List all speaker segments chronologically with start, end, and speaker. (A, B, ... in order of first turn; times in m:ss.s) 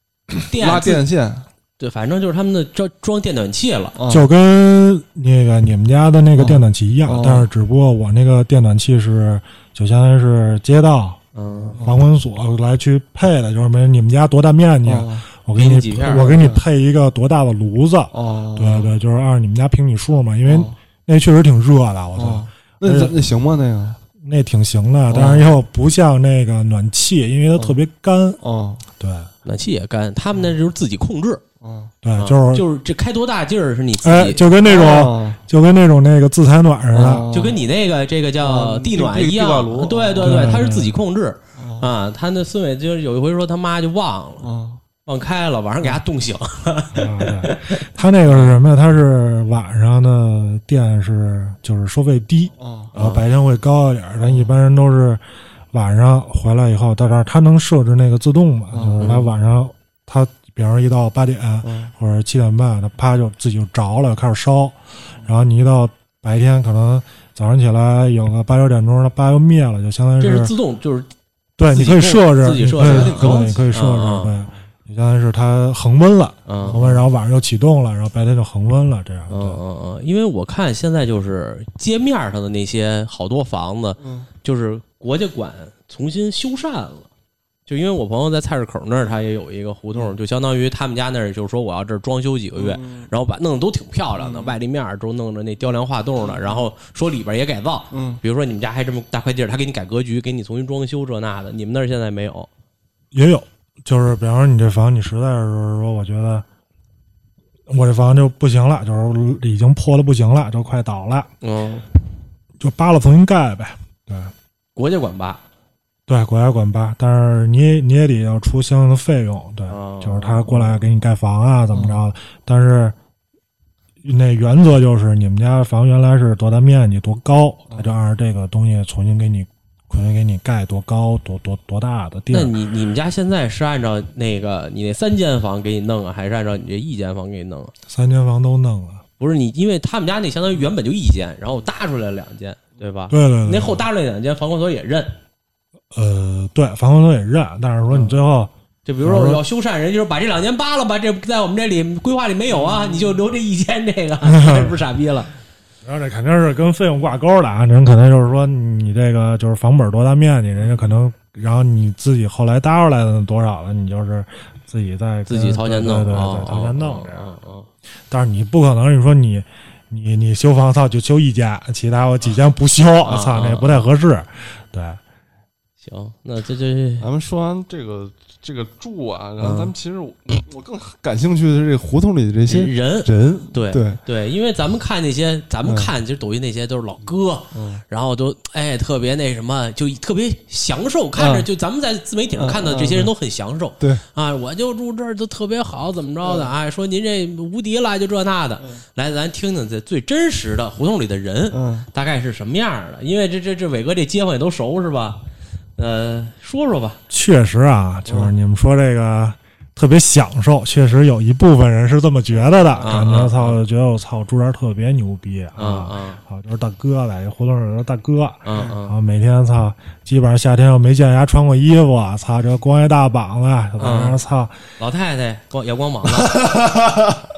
0:00.5-0:01.0 A
0:00.5-0:01.5 B
0:01.8-0:04.0 A
0:04.0-0:04.3 B
0:04.1-0:11.2 C
0:06.4-0:07.5 B
0:11.3-0:11.8 A
0:11.7-0:12.0 B
0:11.8-0:23.2 C
0:14.8-0:15.2 B
0:15.5-0:16.4 A
0:16.1-0:16.6 B
0:18.1-0:18.9 B
0:20.4-0:20.7 B
0:22.1-0:24.0 B
0:24.2-0:28.4 C
0:25.1-0:25.5 B
0:28.4-0:28.8 B
0:29.0-0:29.3 C
0:29.4-0:31.4 A
0:31.6-0:31.9 B
0:32.0-0:32.6 C
0:32.2-0:34.5 A
0:34.0-0:37.3 C
0:34.6-0:35.4 B
0:36.9-0:37.6 B
0:37.3-0:44.5 A
0:38.4-0:40.5 B
0:40.2-0:41.0 C
0:41.6-0:41.9 B
0:44.4-0:44.8 B
0:45.0-0:48.6 A
0:46.9-1:10.5 C
0:52.6-0:52.9 B
0:52.9-0:53.2 A
0:54.2-0:54.5 B
0:58.7-0:59.2 B
1:01.6-1:01.9 B
1:10.2-1:11.1 A
1:11.6-1:19.6 C
1:11.7-1:14.3 A
1:12.8-1:13.7 B
1:16.5-1:16.8 A
1:16.6-1:17.0 B
1:19.3-1:27.1 A
1:24.0-1:24.3 B
1:27.7-1:42.5 A
1:32.6-1:33.1 B
1:34.2-1:34.6 B
1:36.2-1:36.6 B
1:37.9-1:38.2 B
1:43.1-1:46.4 C
1:47.7-1:51.3 C
1:51.4-1:51.8 A
1:52.6-1:54.3 C
1:54.8-1:55.4 A
1:56.1-2:02.9 C
1:59.7-2:00.7 A
2:01.7-2:02.0 B
2:04.0-2:12.5 C
2:12.3-2:17.7 A
2:17.9-2:19.0 C
2:19.2-2:25.2 A
2:23.1-2:23.8 C
2:25.9-2:28.5 C
2:28.8-2:35.3 A
2:29.0-2:29.4 C
2:32.5-2:33.2 B
2:34.3-2:34.7 C
2:35.8-2:47.3 C
2:45.3-2:47.7 A
2:48.1-2:55.0 C
2:53.0-2:53.8 A
2:55.8-2:57.1 A
2:57.0-3:04.0 B
2:59.4-2:59.7 A
3:02.5-3:25.2 A
3:05.6-3:05.9 B
3:07.5-3:07.8 B
3:11.2-3:11.5 B
3:12.3-3:13.1 B
3:16.2-3:16.5 B
3:21.5-3:21.9 B
3:25.8-3:27.0 A
3:27.1-3:44.6 C
3:32.4-3:32.9 B
3:32.8-3:33.6 A
3:35.6-3:36.2 A
3:38.4-3:38.9 A
3:43.8-3:44.2 A
3:44.8-3:46.4 A
3:46.2-3:47.2 B